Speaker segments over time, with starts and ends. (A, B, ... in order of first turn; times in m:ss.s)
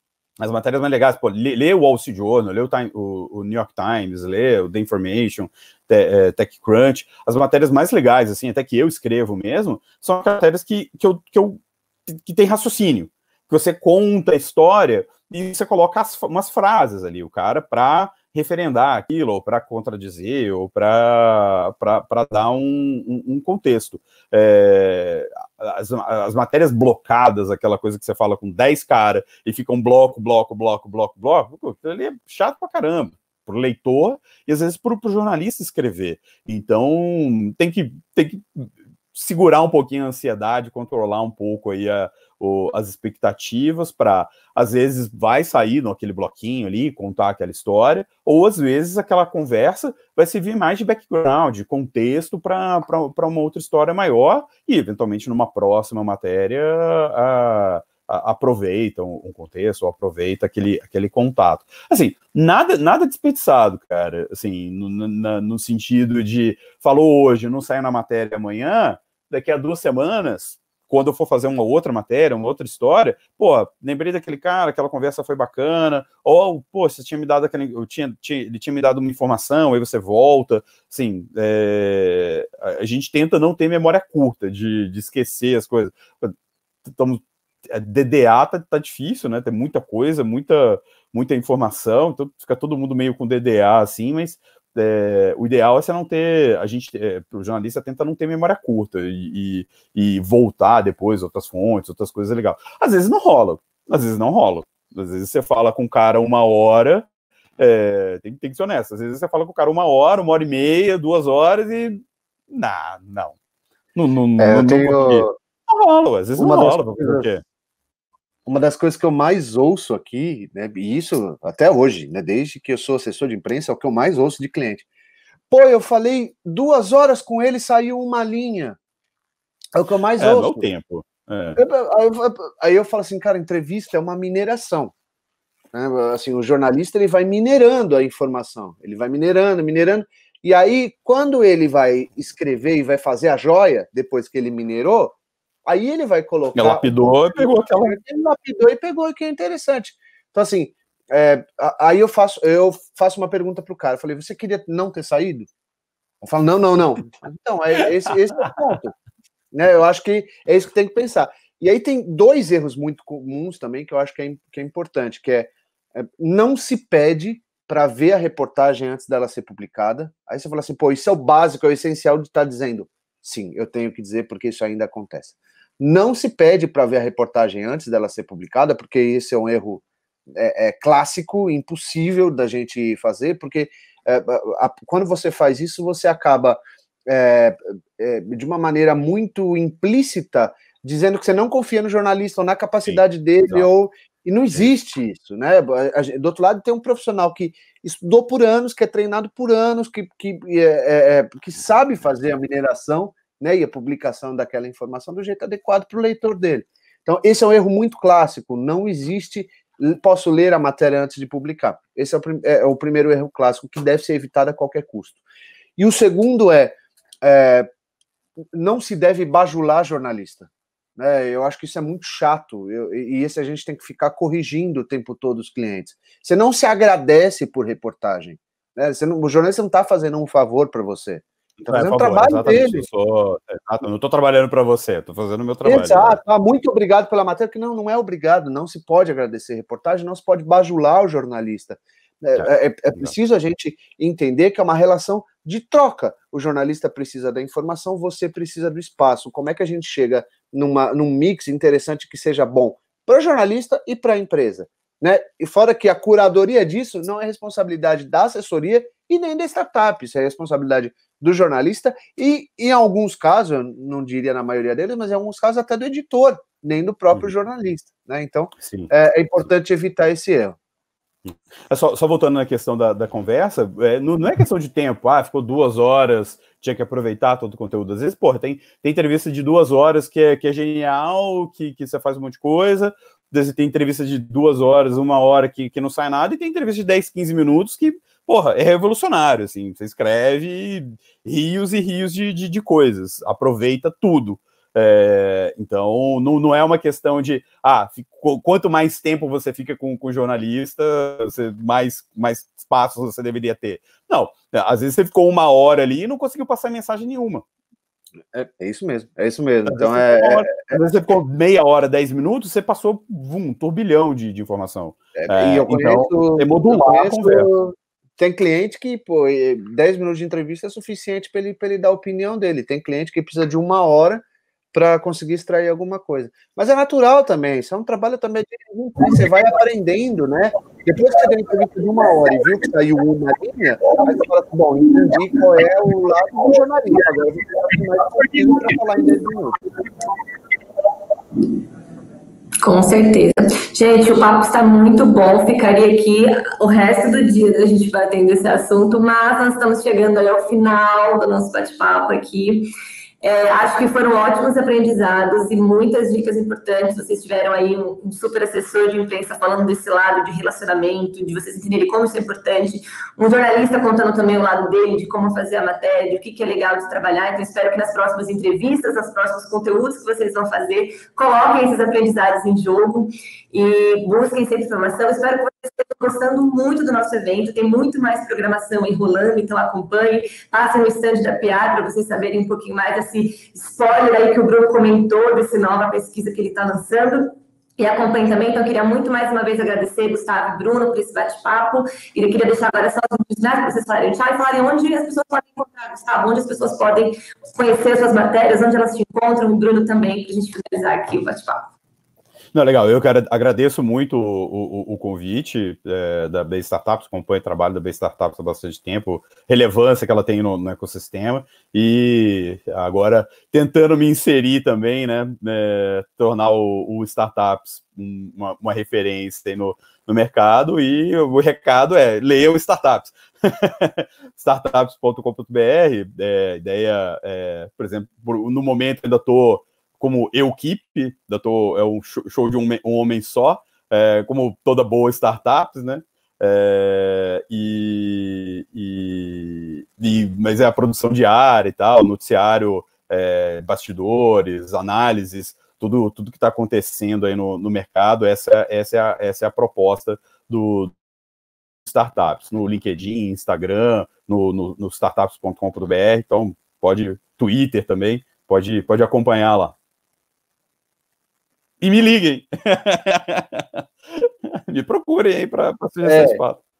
0:00.4-1:26.3 A
1:26.8-1:53.3 A
1:53.9-1:57.4 A
1:54.4-1:55.3 B
1:56.3-1:57.2 B
1:58.4-2:04.9 B
2:05.5-2:08.8 B
2:09.7-2:10.6 B
2:10.2-2:11.6 A
2:11.6-2:14.9 B
2:15.7-2:35.5 B
2:26.6-2:28.0 A
2:36.2-2:38.9 B
2:39.5-3:35.2 B
3:12.8-3:13.7 A
3:35.8-3:37.7 B
3:38.5-3:52.8 B
3:51.6-3:56.2 A
3:55.6-4:30.6 B
4:02.4-4:03.1 A
4:28.6-4:28.9 A
4:31.2-5:07.4 A
5:08.3-5:10.8 B
5:09.7-5:17.5 A
5:15.2-5:39.6 B
5:42.6-5:52.7 C
5:53.2-6:41.7 C
6:42.5-7:30.9 A
7:31.8-7:39.7 A
7:41.8-7:46.6 A
7:46.0-7:46.4 B